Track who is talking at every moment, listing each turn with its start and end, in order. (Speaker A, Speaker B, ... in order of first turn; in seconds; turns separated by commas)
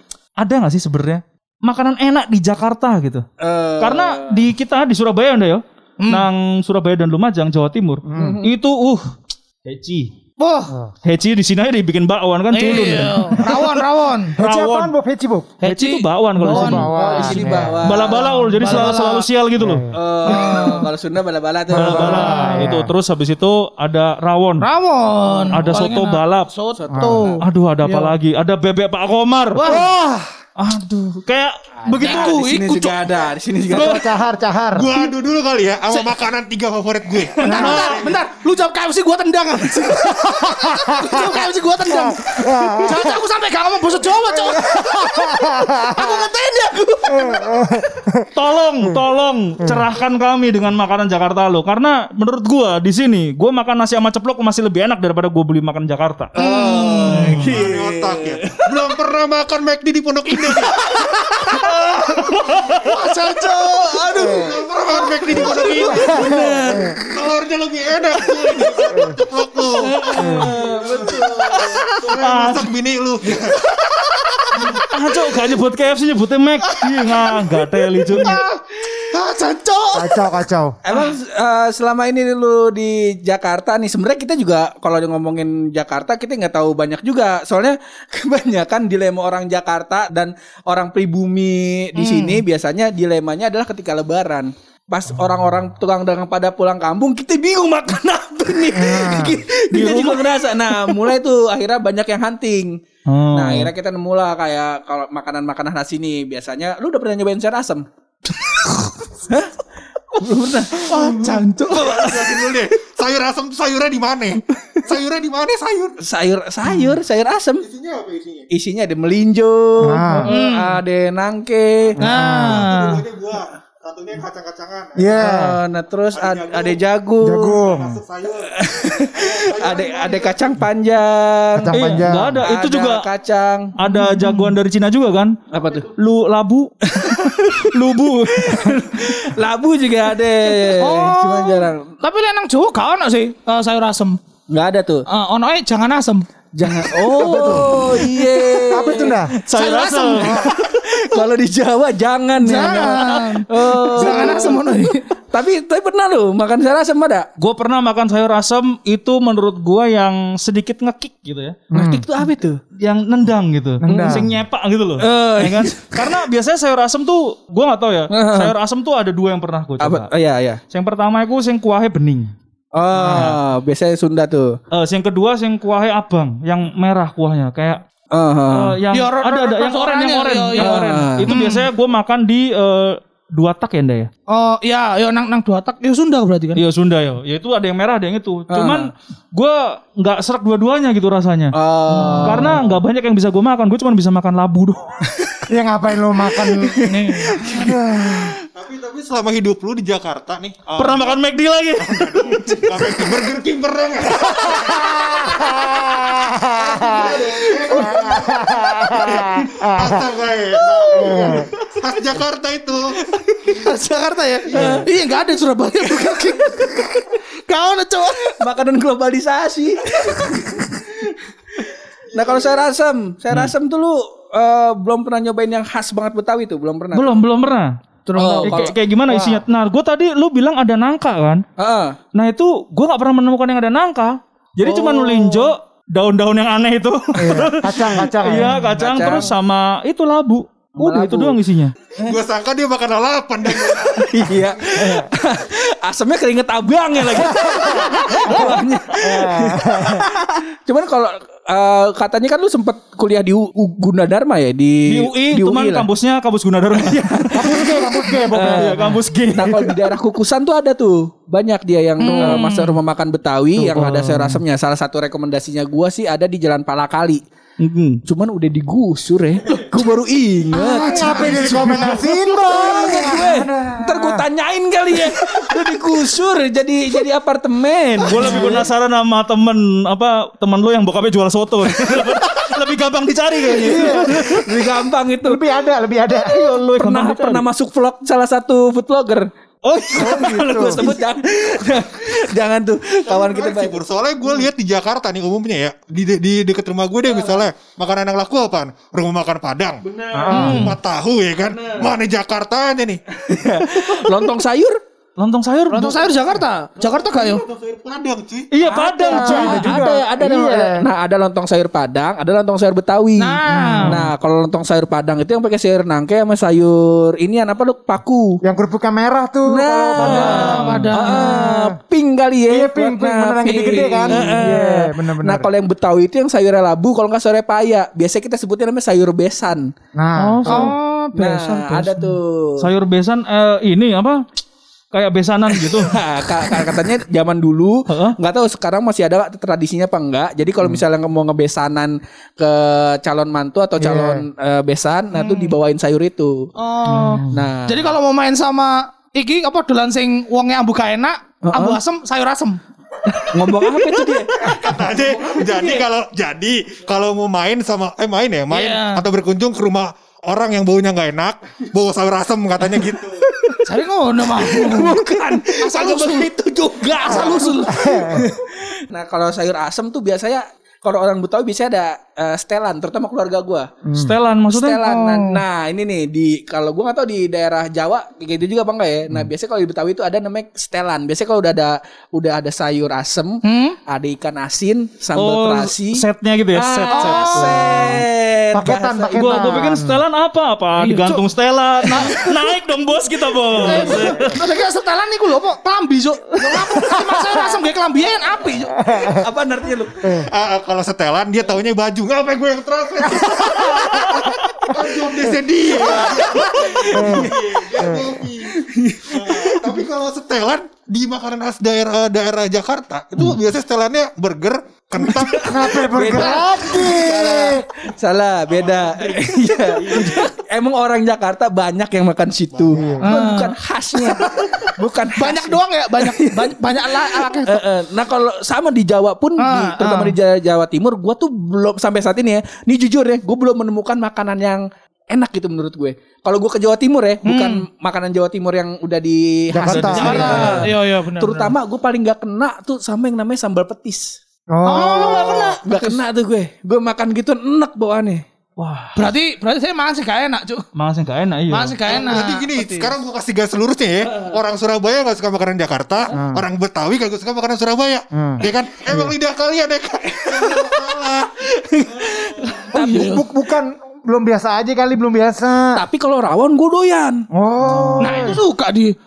Speaker A: 0.4-3.3, Speaker B: 3.4-4.4, Speaker A: 3.8-10.1, Speaker C: 6.0-6.3, Speaker D: 8.1-8.4, Speaker B: 8.1-8.5, Speaker C: 10.4-10.7, Speaker A: 11.1-13.7, Speaker C: 12.5-14.4, Speaker D: 14.4-15.6, Speaker A: 14.4-14.9, Speaker C: 15.6-16.9, Speaker A: 15.6-19.9, Speaker D: 16.4-18.0, Speaker B: 16.7-18.8, Speaker C: 18.1-19.3, Speaker D: 19.6-20.0, Speaker B: 19.9-22.5, Speaker C: 20.2-20.9, Speaker A: 21.7-24.7, Speaker D: 21.8-22.9, Speaker C: 22.1-22.7, Speaker C: 24.6-28.1, Speaker B: 25.3-25.8, Speaker A: 25.5-26.5, Speaker B: 26.8-27.4, Speaker D: 26.9-27.2, Speaker A: 27.4-29.7, Speaker C: 29.6-29.9, Speaker E: 29.6-30.3, Speaker A: 30.6-32.4, Speaker B: 31.8-34.0, Speaker C: 32.0-33.0, Speaker D: 33.7-35.0, Speaker E: 34.7-38.1, Speaker C: 37.4-47.7, Speaker D: 37.5-38.0, Speaker D: 40.0-43.2, Speaker D: 44.3-46.3, Speaker D: 47.1-48.3, Speaker A: 48.3-56.3, Speaker B: 56.4-58.8, Speaker C: 56.4-57.3, Speaker E: 56.4-60.8, Speaker A: 57.1-57.6, Speaker B: 60.5-62.2, Speaker C: 60.5-61.7, Speaker E: 62.3-62.6, Speaker C: 62.5-64.4, Speaker A: 62.5-62.9, Speaker E: 63.5-73.7, Speaker D: 64.1-64.6, Speaker C: 65.2-65.8, Speaker B: 65.3-67.0, Speaker D: 65.9-67.0, Speaker D: 68.9-69.2, Speaker B: 69.8-71.9, Speaker D: 70.2-70.6, Speaker C: 71.6-72.1, Speaker A: 72.2-72.7, Speaker C: 73.9-74.7, Speaker A: 74.8-78.4, Speaker C: 76.7-80.3, Speaker D: 79.9-80.8, Speaker B: 80.8-102.8, Speaker C: 92.0-92.4, Speaker D: 98.7-99.4, Speaker A: 99.7-101.0, Speaker A: 103.1-103.7, Speaker B: 103.3-107.9, Speaker B: 109.2-109.5, Speaker B: 110.1-111.0, Speaker C: 110.9-112.5, Speaker E: 110.9-116.0, Speaker B: 116.0-117.7, Speaker E: 117.6-118.5, Speaker B: 118.5-122.0, Speaker D: 119.8-120.3, Speaker C: 120.2-120.8, Speaker D: 122.0-122.7, Speaker E: 122.0-125.2, Speaker C: 122.0-123.0, Speaker D: 125.0-125.6, Speaker B: 125.1-127.6, Speaker E: 126.1-126.8, Speaker D: 127.2-128.0, Speaker E: 127.6-130.6, Speaker B: 128.5-131.8, Speaker D: 131.6-132.4, Speaker A: 131.7-133.1, Speaker B: 132.4-133.8, Speaker A: 133.8-139.3, Speaker C: 133.8-134.5, Speaker B: 135.5-135.9, Speaker B: 136.8-141.9, Speaker C: 140.8-144.2, Speaker B: 144.5-145.1, Speaker C: 145.1-146.3, Speaker B: 146.6-157.3, Speaker D: 147.1-148.0, Speaker D: 148.7-149.3, Speaker A: 149.5-150.5, Speaker C: 149.5-150.5, Speaker C: 152.4-155.1, Speaker A: 152.8-153.4, Speaker A: 157.4-161.6, Speaker D: 161.7-162.1, Speaker B: 161.7-162.6, Speaker A: 162.7-170.1, Speaker D: 163.8-164.2, Speaker B: 163.9-164.3, Speaker B: 165.0-166.2, Speaker B: 168.1-168.5, Speaker B: 169.8-170.6, Speaker A: 170.7-172.3, Speaker B: 172.8-174.6, Speaker A: 173.0-173.4, Speaker A: 174.7-177.8, Speaker B: 178.1-178.8, Speaker A: 178.5-184.1, Speaker C: 178.9-181.7, Speaker B: 180.6-181.3, Speaker C: 184.3-186.6, Speaker A: 186.6-191.6, Speaker B: 188.5-188.9, Speaker B: 191.5-192.7, Speaker D: 192.0-192.5, Speaker A: 192.2-195.1, Speaker D: 195.5-196.8, Speaker B: 196.6-197.8, Speaker C: 196.8-197.4, Speaker D: 197.3-198.4, Speaker E: 198.5-201.2, Speaker A: 200.8-202.6, Speaker E: 201.8-213.0, Speaker D: 204.3-210.1, Speaker C: 207.5-207.8, Speaker C: 210.8-211.5, Speaker D: 210.9-211.5, Speaker B: 213.1-213.6, Speaker C: 213.5-218.4, Speaker E: 214.5-214.9, Speaker B: 214.5-214.9, Speaker B: 218.4-227.2, Speaker E: 222.1-222.6, Speaker A: 226.9-227.8, Speaker C: 228.1-228.7, Speaker B: 228.2-228.8, Speaker A: 228.3-231.4, Speaker D: 229.1-229.4, Speaker B: 231.6-232.0, Speaker A: 232.1-241.7, Speaker B: 234.6-235.5, Speaker D: 237.2-238.6, Speaker B: 238.6-239.3, Speaker B: 240.8-241.4, Speaker E: 242.0-244.8, Speaker B: 243.8-255.9, Speaker D: 247.2-250.1, Speaker A: 247.3-248.6, Speaker A: 254.9-259.8, Speaker B: 256.8-257.8, Speaker D: 257.4-259.0, Speaker B: 258.3-267.2, Speaker C: 262.0-262.8, Speaker A: 263.7-264.4, Speaker A: 267.6-268.0, Speaker B: 268.1-278.7, Speaker D: 270.5-274.2, Speaker E: 270.9-271.7, Speaker A: 278.0-284.5, Speaker D: 278.2-278.6, Speaker D: 283.6-284.5, Speaker B: 283.6-285.4, Speaker D: 285.2-286.4, Speaker A: 286.1-287.4, Speaker B: 286.8-294.5, Speaker D: 289.9-290.9, Speaker E: 293.1-303.4, Speaker B: 297.1-297.5, Speaker B: 299.9-300.5, Speaker D: 300.1-300.8, Speaker C: 300.3-300.8, Speaker B: 301.6-301.9, Speaker B: 303.2-304.8, Speaker A: 305.2-306.1, Speaker C: 305.7-307.4, Speaker E: 306.8-308.5, Speaker A: 308.5-309.8, Speaker B: 308.6-318.4, Speaker D: 309.1-310.9, Speaker C: 313.2-314.0, Speaker D: 313.5-313.9, Speaker D: 318.4-321.8, Speaker B: 319.5-329.7, Speaker A: 320.0-320.9, Speaker C: 320.1-321.5, Speaker D: 322.5-325.5, Speaker A: 324.1-324.4, Speaker D: 329.9-330.7, Speaker A: 330.2-330.8, Speaker C: 330.4-332.2, Speaker B: 330.5-332.7, Speaker A: 332.6-334.2, Speaker A: 334.9-336.0, Speaker B: 335.6-346.5, Speaker A: 337.9-338.2, Speaker D: 343.8-344.2, Speaker C: 345.2-345.5, Speaker C: 346.6-352.6, Speaker A: 346.9-347.3, Speaker D: 346.9-347.3, Speaker B: 347.3-347.9, Speaker B: 351.4-351.8, Speaker B: 353.1-354.7, Speaker E: 354.4-363.2, Speaker C: 355.4-355.8, Speaker C: 358.5-359.0, Speaker B: 363.2-363.8, Speaker C: 363.6-366.3, Speaker B: 364.4-373.7, Speaker C: 366.8-368.2, Speaker D: 367.2-368.3, Speaker D: 373.8-374.1, Speaker A: 373.9-374.9, Speaker B: 374.5-389.8, Speaker C: 374.8-375.4, Speaker C: 383.4-383.8, Speaker A: 385.1-388.0, Speaker C: 386.9-388.0, Speaker D: 388.5-390.0, Speaker A: 389.1-394.4, Speaker C: 390.8-391.2, Speaker C: 391.8-392.4, Speaker C: 393.5-398.8, Speaker B: 393.9-394.2, Speaker D: 396.8-397.6, Speaker D: 398.8-399.3, Speaker B: 399.0-400.3, Speaker D: 400.0-400.3, Speaker E: 400.2-415.9, Speaker D: 403.2-405.4, Speaker B: 405.8-407.3, Speaker D: 406.9-408.1, Speaker B: 408.5-409.8, Speaker B: 415.0-448.2, Speaker D: 415.3-417.6, Speaker E: 418.5-420.4, Speaker E: 422.6-423.0, Speaker D: 422.7-423.1, Speaker C: 423.0-423.6, Speaker C: 425.1-427.6, Speaker C: 429.4-430.2, Speaker C: 437.2-437.6, Speaker D: 439.5-440.6, Speaker A: 439.6-440.7, Speaker C: 439.9-441.5, Speaker D: 444.5-445.5, Speaker C: 444.6-445.6, Speaker A: 444.8-445.8, Speaker A: 448.6-449.1, Speaker C: 448.9-450.7, Speaker A: 450.8-451.8, Speaker C: 451.5-452.9, Speaker E: 451.9-461.3, Speaker D: 456.1-456.5, Speaker D: 458.1-459.1, Speaker B: 460.2-460.8, Speaker B: 461.4-463.2, Speaker C: 462.7-463.2, Speaker D: 462.7-465.8, Speaker B: 465.7-467.2, Speaker D: 467.3-468.4, Speaker C: 468.0-469.0